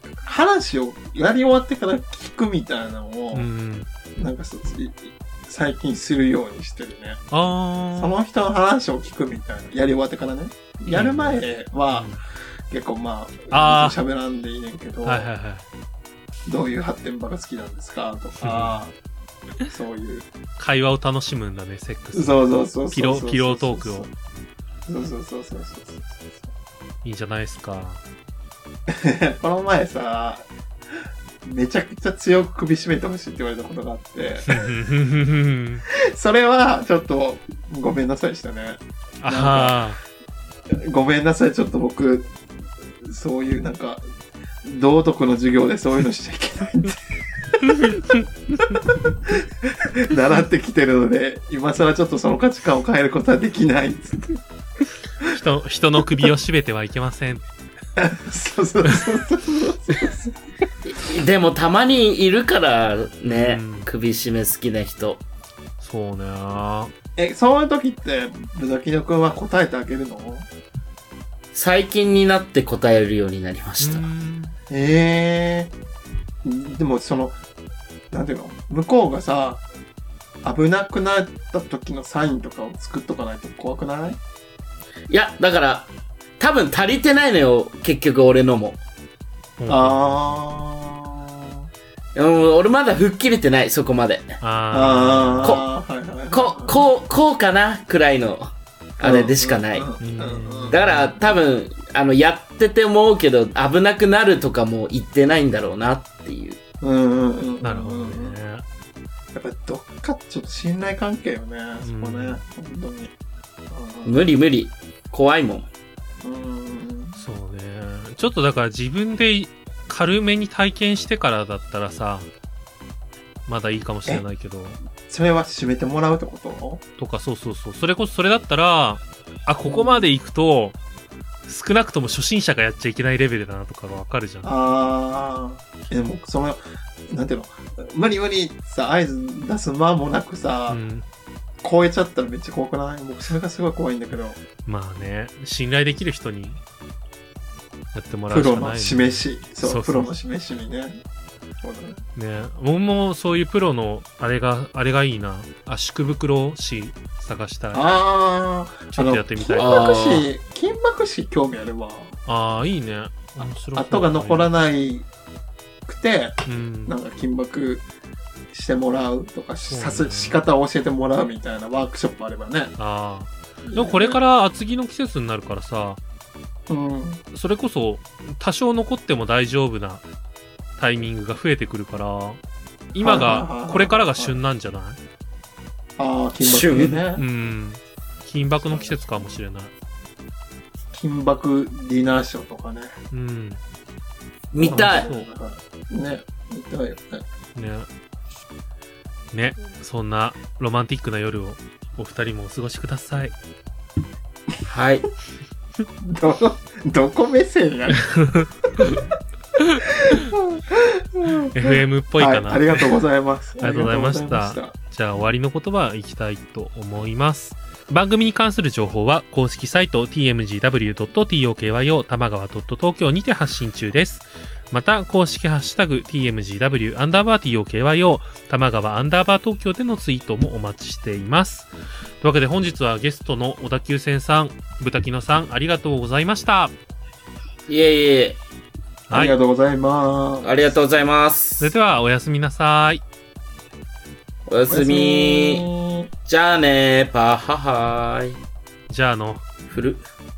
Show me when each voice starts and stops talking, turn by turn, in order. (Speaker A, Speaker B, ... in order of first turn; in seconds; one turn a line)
Speaker A: 0.2-3.5
Speaker B: 3.3-3.9
Speaker A: 4.1-7.2
Speaker B: 7.3-8.1
Speaker A: 8.0-12.2
Speaker B: 10.9-11.4
Speaker B: 11.9-12.2
Speaker A: 12.7-15.3
Speaker B: 13.5-14.0
Speaker B: 15.0-15.6
Speaker A: 16.5-18.9
Speaker B: 18.4-18.8
Speaker A: 19.7-20.3
Speaker B: 20.6-24.1
Speaker A: 22.1-24.1
Speaker A: 24.9-26.5
Speaker B: 27.0-28.0
Speaker A: 28.9-30.4
Speaker A: 31.4-34.6
Speaker B: 34.5-35.8
Speaker A: 35.9-39.8
Speaker B: 39.2-40.0
Speaker A: 40.7-42.3
Speaker A: 43.0-44.0
Speaker A: 44.6-47.0
Speaker B: 47.7-48.2
Speaker A: 49.2-54.4
Speaker B: 55.2-57.5
Speaker A: 58.0-60.3
Speaker C: 60.8-65.2
Speaker B: 63.2-63.9
Speaker B: 65.8-66.9
Speaker A: 67.2-70.5
Speaker C: 71.5-74.1
Speaker B: 73.8-74.5
Speaker A: 74.7-75.7
Speaker A: 76.4-77.4
Speaker A: 78.1-79.6
Speaker A: 80.4-84.2
Speaker C: 85.1-88.8
Speaker B: 89.6-90.4
Speaker A: 89.7-91.7
Speaker C: 92.1-94.4
Speaker B: 94.4-95.5
Speaker A: 94.7-96.8
Speaker C: 96.3-99.9
Speaker A: 99.0-100.8
Speaker B: 100.0-101.2
Speaker C: 100.7-106.6
Speaker A: 106.8-108.4
Speaker B: 107.6-108.6
Speaker A: 109.3-113.1
Speaker B: 111.8-112.4
Speaker A: 113.7-114.2
Speaker C: 114.0-115.7
Speaker A: 116.2-117.2
Speaker B: 117.2-122.3
Speaker B: 123.5-124.8
Speaker A: 125.0-126.8
Speaker B: 127.0-130.8
Speaker A: 129.6-130.1
Speaker B: 131.5-134.5
Speaker A: 134.4-140.8
Speaker B: 140.7-141.1
Speaker A: 141.6-144.4
Speaker B: 144.6-146.6
Speaker B: 147.9-150.1
Speaker A: 148.3-150.9
Speaker A: 151.6-152.0
Speaker B: 152.2-158.0
Speaker A: 157.7-162.1
Speaker B: 158.9-159.8
Speaker C: 159.6-160.3
Speaker B: 162.2-164.5
Speaker A: 163.4-165.1
Speaker A: 165.8-167.8
Speaker B: 166.4-166.9
Speaker A: 168.5-172.8
Speaker B: 169.7-170.4
Speaker B: 172.8-176.0
Speaker A: 173.6-174.2
Speaker A: 176.7-177.2
Speaker B: 177.3-180.0
Speaker B: 180.8-182.4
Speaker B: 182.9-185.0
Speaker A: 183.0-184.4
Speaker A: 186.0-187.2
Speaker C: 186.4-187.0
Speaker B: 187.2-189.7
Speaker A: 188.6-189.2
Speaker A: 190.9-192.9
Speaker B: 193.1-193.6
Speaker C: 194.5-195.1
Speaker A: 194.6-197.2
Speaker B: 194.6-195.3
Speaker B: 197.5-197.9
Speaker B: 199.3-203.3
Speaker C: 204.7-205.1
Speaker A: 206.0-208.1
Speaker B: 208.0-209.0
Speaker B: 209.6-210.3
Speaker A: 210.0-214.7
Speaker B: 211.5-213.0
Speaker B: 213.6-231.7
Speaker B: 232.2-236.7
Speaker C: 237.7-238.4
Speaker A: 239.1-240.5
Speaker B: 239.1-239.3
Speaker C: 240.4-241.7
Speaker B: 241.6-243.0
Speaker C: 244.5-245.6
Speaker A: 244.7-246.1
Speaker C: 246.3-248.4
Speaker B: 248.9-249.4
Speaker C: 249.7-250.0